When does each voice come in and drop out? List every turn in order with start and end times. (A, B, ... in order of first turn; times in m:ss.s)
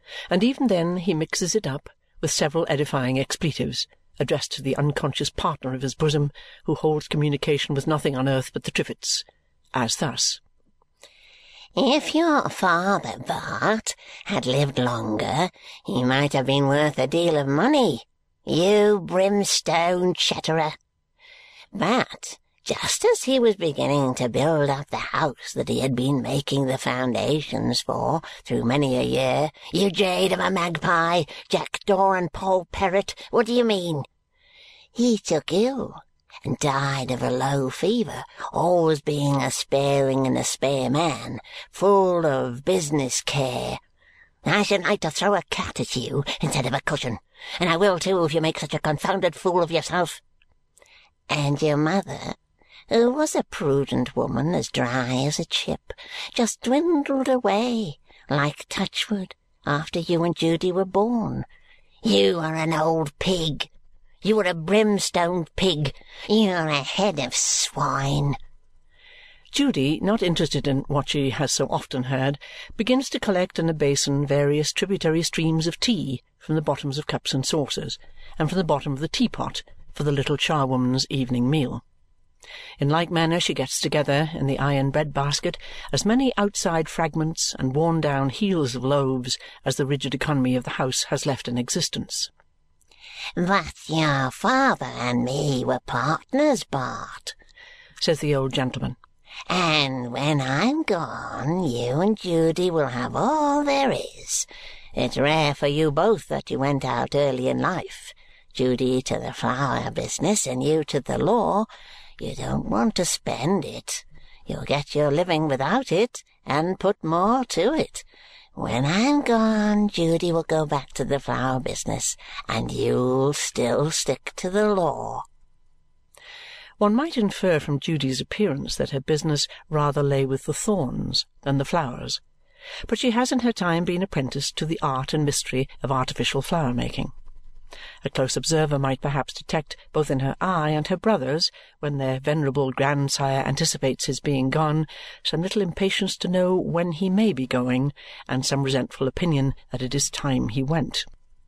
0:00.3-0:10.4 A
0:11.8-0:20.7 B
0:21.7-0:34.1 B
0:35.0-0:43.8 B
0:44.4-0:50.2 B
0:51.3-0:52.4 B
0:52.9-1:01.5 B
1:02.0-1:03.7 B
1:04.2-1:08.4 B
1:09.5-1:21.8 A
1:22.8-1:32.3 A
1:33.4-1:37.4 B
1:38.0-1:39.0 A
1:39.5-1:51.7 B
1:52.2-2:05.2 B
2:06.8-2:12.2 A
2:12.9-2:17.1 A
2:18.0-2:31.1 A